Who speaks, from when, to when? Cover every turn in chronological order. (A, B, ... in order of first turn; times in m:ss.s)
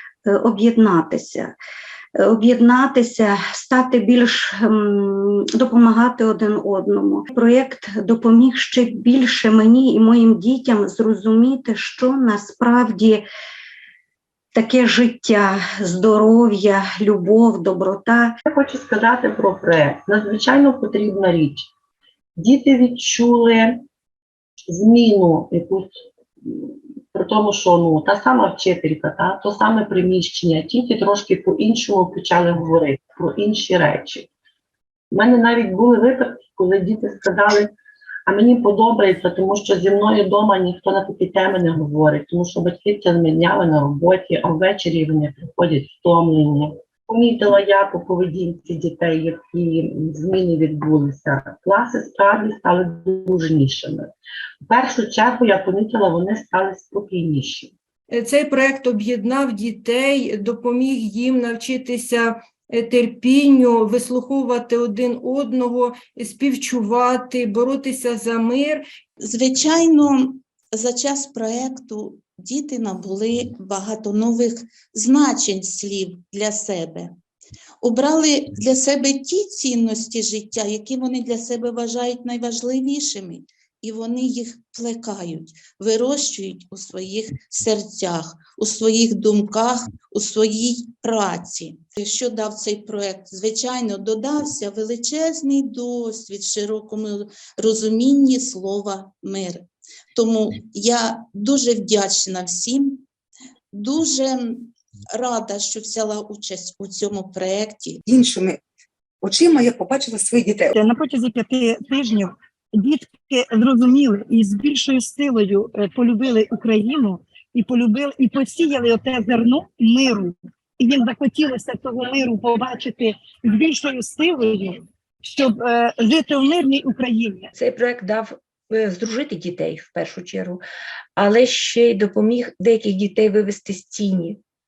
0:00.2-0:01.5 A
0:02.2-0:13.2 A
0:14.5-0:18.3 A
0:18.5-0:21.7 B
0:22.4-0:23.8 B
0:24.7-0:34.3 B
0:35.1-0:37.7 B
0:38.3-0:54.1 B
0:54.6-0:57.7 B
0:58.1-1:08.8 C
1:09.2-1:17.1 D
1:17.8-1:43.0 D
1:43.7-1:48.0 D
1:48.0-1:48.6 E
1:49.2-1:50.7 E
1:50.7-2:07.5 F
2:07.6-2:10.6 G
2:11.2-2:14.4 G